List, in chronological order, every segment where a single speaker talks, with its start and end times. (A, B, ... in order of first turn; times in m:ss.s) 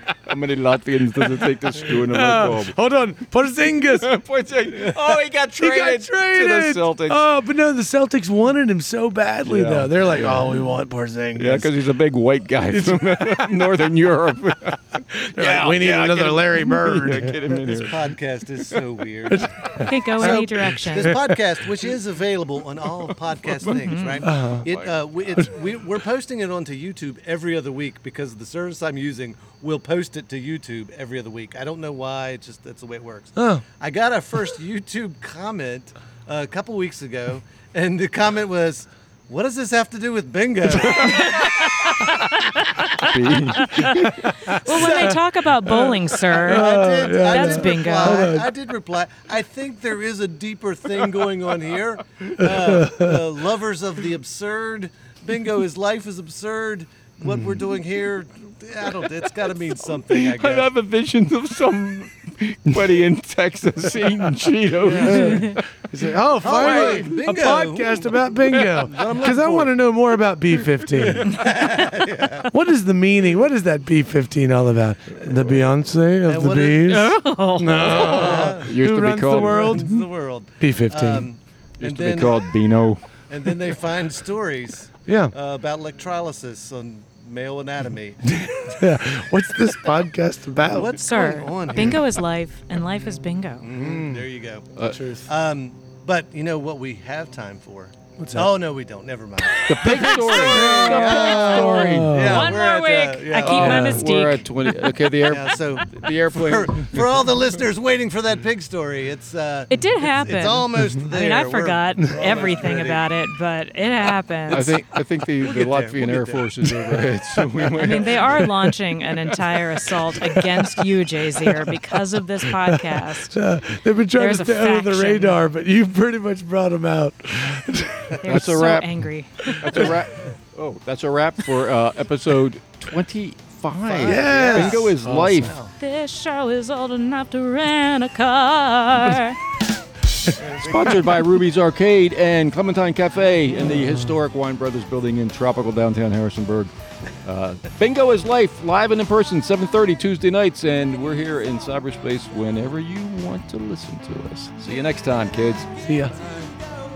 0:00.2-0:02.7 A
0:01.2-0:04.1 B
0:03.9-0:07.2 A
0:05.6-0:11.7 B
0:09.4-0:10.7 A
0:11.4-0:18.2 A
0:12.7-0:13.8 B
0:15.1-0:17.5 B
0:17.6-0:41.8 C
0:19.3-0:21.4 B
0:19.8-0:21.2 D
0:23.5-0:25.0 A
0:23.8-0:24.2 D
0:24.2-0:24.7 B
0:33.4-0:33.6 B
0:41.0-0:48.3 D
0:43.0-0:44.3 A
0:44.5-0:45.0 B
0:44.6-0:45.2 C
0:45.6-0:48.5 B
0:46.3-1:00.7 C
0:52.4-0:53.3 B
0:57.2-0:57.7 B
0:59.0-1:05.6 A
1:04.8-1:05.3 C
1:04.8-1:11.4 B
1:05.2-1:05.6 D
1:06.4-1:09.7 C
1:06.4-1:07.5 A
1:11.2-1:12.5 C
1:12.5-1:20.0 B
1:16.2-1:17.0 C
1:16.8-1:18.5 D
1:17.7-1:20.0 A
1:17.8-1:18.7 C
1:19.3-1:22.5 C
1:20.6-1:21.3 B
1:21.8-1:23.0 A
1:23.3-1:28.8 C
1:25.0-1:25.3 B
1:28.2-1:31.0 B
1:30.6-1:32.1 C
1:31.0-1:33.6 D
1:31.7-1:32.0 B
1:33.6-1:43.9 C
1:33.7-1:34.3 B
1:34.8-1:35.3 B
1:38.2-1:38.5 B
1:39.4-1:41.5 D
1:39.6-1:42.4 A
1:40.5-1:42.6 B
1:42.2-1:44.9 D
1:43.4-1:47.2 A
1:43.4-1:44.0 B
1:45.1-1:53.0 C
1:49.7-1:54.7 D
1:54.5-1:58.5 A
1:55.4-1:56.9 C
1:57.8-2:03.4 D
2:00.2-2:08.5 B
2:04.2-2:05.4 D
2:08.2-2:09.8 D
2:08.2-2:15.6 A
2:09.6-2:09.9 B
2:13.8-2:15.7 C
2:14.0-2:15.5 B
2:15.8-2:19.4 D
2:20.3-2:21.0 C
2:20.5-2:26.7 A
2:23.6-2:24.2 B
2:27.2-2:35.7 A
2:35.8-2:36.2 B